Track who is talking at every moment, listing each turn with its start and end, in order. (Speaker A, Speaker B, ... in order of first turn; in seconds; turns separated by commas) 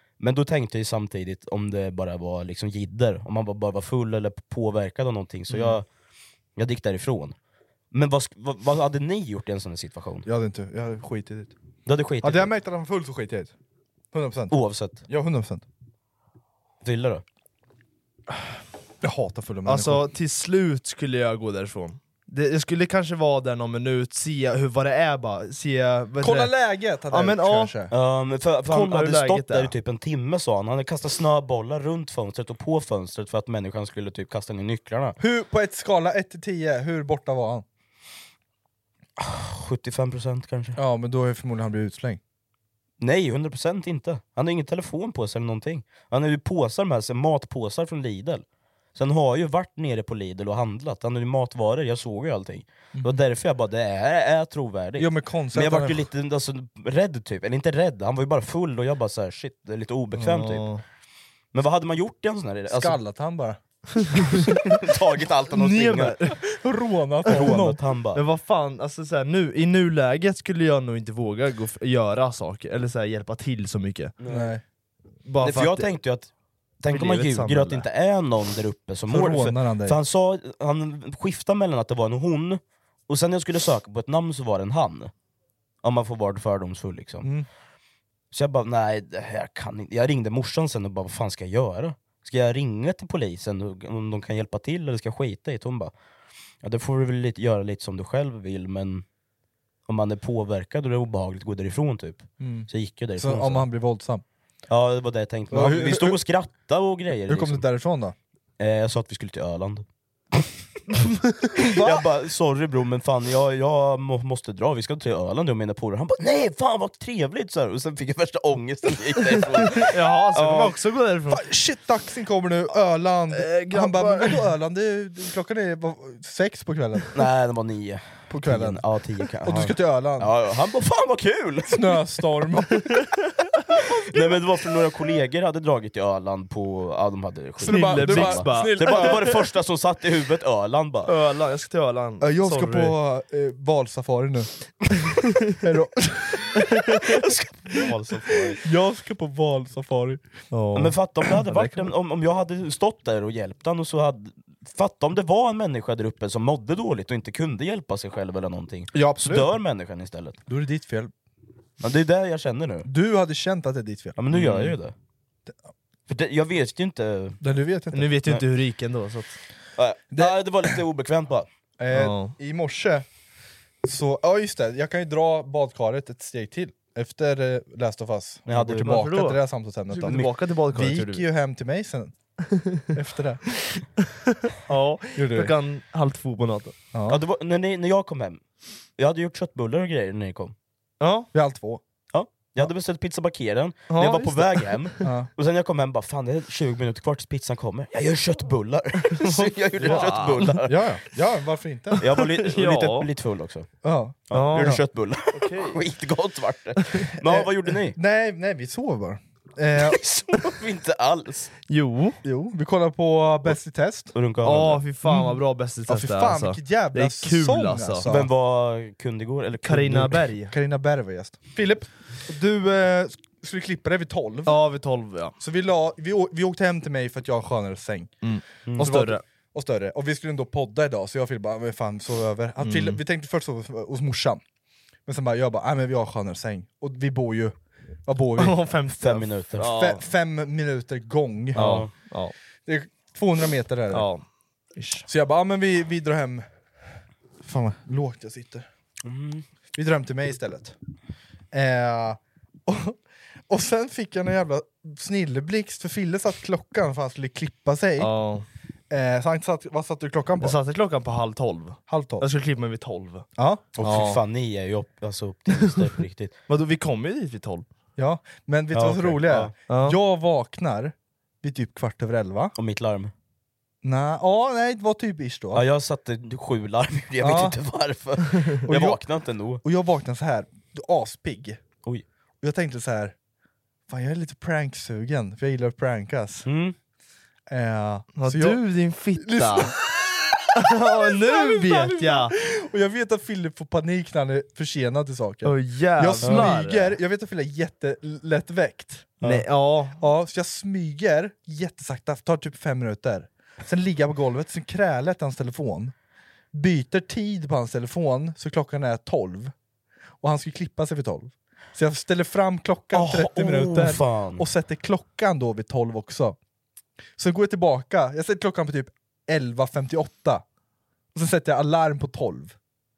Speaker A: 0.2-5.8, Speaker A: 6.6-7.3, Speaker A: 7.9-10.3, Speaker B: 10.2-11.5, Speaker A: 11.9-12.5, Speaker B: 12.2-13.5, Speaker B: 14.1-14.5, Speaker A: 14.5-15.0, Speaker B: 15.1-15.6, Speaker A: 16.8-17.2, Speaker B: 19.0-20.1, Speaker C: 19.7-26.5, Speaker B: 26.2-27.9, Speaker C: 27.1-27.7, Speaker A: 27.9-35.2, Speaker C: 28.7-29.7, Speaker B: 35.2-37.6, Speaker A: 39.2-40.8, Speaker B: 40.8-42.2, Speaker A: 43.0-48.4, Speaker A: 49.0-60.7, Speaker B: 55.0-56.1, Speaker C: 60.2-60.8, Speaker A: 61.5-63.0, Speaker B: 62.7-63.6, Speaker C: 64.0-64.5, Speaker A: 64.4-66.2, Speaker C: 65.5-66.4, Speaker B: 66.5-67.8, Speaker A: 67.3-68.2, Speaker C: 67.3-67.5, Speaker C: 68.1-74.1, Speaker A: 74.2-74.5, Speaker B: 74.3-74.6, Speaker C: 75.3-75.9, Speaker A: 75.4-76.3, Speaker A: 76.8-85.1, Speaker C: 76.9-77.9, Speaker B: 79.1-80.0, Speaker A: 85.8-87.3, Speaker B: 87.2-87.5, Speaker A: 88.3-95.9, Speaker A: 96.6-99.0, Speaker A: 99.9-103.7, Speaker B: 102.4-104.2, Speaker A: 104.7-107.7, Speaker B: 105.5-106.2, Speaker B: 107.3-108.2, Speaker A: 108.6-110.5, Speaker A: 111.6-120.8, Speaker C: 119.7-121.4, Speaker B: 121.3-127.2, Speaker C: 123.3-124.4, Speaker A: 127.1-132.0, Speaker B: 128.3-128.8, Speaker B: 129.4-130.3, Speaker B: 131.7-132.8, Speaker A: 133.8-141.1, Speaker B: 137.6-139.2, Speaker C: 137.7-139.4, Speaker C: 141.1-142.9, Speaker B: 142.2-144.5, Speaker B: 145.6-146.1, Speaker A: 147.2-148.6, Speaker B: 148.6-150.2, Speaker C: 150.5-151.8, Speaker A: 150.8-160.4, Speaker B: 158.9-159.5, Speaker B: 160.5-161.1, Speaker A: 161.8-162.9, Speaker B: 162.8-164.7, Speaker A: 164.2-164.9, Speaker A: 166.1-167.4, Speaker B: 167.4-168.2, Speaker C: 167.9-169.4, Speaker A: 169.8-171.5, Speaker B: 171.8-173.1, Speaker C: 171.9-172.3, Speaker B: 173.8-182.2, Speaker A: 178.5-179.1, Speaker C: 178.8-181.2, Speaker B: 182.9-183.4, Speaker C: 184.7-186.8, Speaker B: 185.2-185.5, Speaker B: 186.9-187.2, Speaker A: 187.1-188.4, Speaker A: 189.0-190.5, Speaker C: 191.0-191.3, Speaker B: 191.3-191.8, Speaker A: 192.1-200.8, Speaker C: 193.9-194.8, Speaker C: 199.1-200.5, Speaker B: 199.8-202.1, Speaker A: 202.0-203.7, Speaker C: 202.2-203.1, Speaker B: 203.8-204.8, Speaker A: 204.3-208.0, Speaker C: 204.3-204.8, Speaker C: 205.3-205.8, Speaker B: 207.2-210.0, Speaker A: 209.8-211.5, Speaker C: 211.7-212.2, Speaker B: 212.2-214.1, Speaker A: 214.1-214.8, Speaker C: 214.4-218.1, Speaker B: 215.1-218.3, Speaker A: 218.1-220.3, Speaker C: 219.6-220.5, Speaker B: 220.5-224.6, Speaker C: 224.5-225.3, Speaker B: 225.4-228.2, Speaker C: 228.2-229.2, Speaker A: 228.7-228.9, Speaker B: 228.8-234.4, Speaker C: 232.6-233.0, Speaker B: 235.1-237.6, Speaker B: 238.1-238.6, Speaker C: 238.4-240.0, Speaker A: 239.0-239.7, Speaker B: 239.6-241.6, Speaker C: 241.5-242.3, Speaker A: 241.6-241.9, Speaker B: 242.7-244.1, Speaker C: 243.9-244.2, Speaker C: 244.8-245.1, Speaker B: 245.1-246.5, Speaker B: 247.4-248.7, Speaker A: 249.0-249.5, Speaker B: 249.8-250.8, Speaker B: 251.5-253.0, Speaker B: 253.5-258.1, Speaker C: 258.0-258.4, Speaker B: 258.9-260.6, Speaker C: 260.4-263.2, Speaker B: 261.9-262.3, Speaker B: 263.4-263.7, Speaker A: 263.8-266.3, Speaker C: 263.8-264.2, Speaker C: 266.5-267.7, Speaker B: 268.0-272.5, Speaker A: 268.7-269.5, Speaker C: 269.7-270.0, Speaker A: 272.6-273.1, Speaker B: 273.8-275.6, Speaker A: 275.5-279.6, Speaker B: 277.2-277.6, Speaker B: 278.7-279.0, Speaker B: 279.6-281.6, Speaker B: 282.4-283.1, Speaker B: 283.9-286.5, Speaker A: 286.4-286.8, Speaker B: 287.5-288.6, Speaker C: 288.2-289.7, Speaker B: 289.2-289.7, Speaker C: 290.6-292.4, Speaker B: 290.9-299.2, Speaker C: 295.4-297.0, Speaker A: 296.2-296.6, Speaker C: 299.2-300.0, Speaker B: 300.0-305.9, Speaker B: 306.5-309.5, Speaker B: 310.2-316.4, Speaker A: 312.9-314.4, Speaker B: 317.2-320.4, Speaker B: 321.1-322.6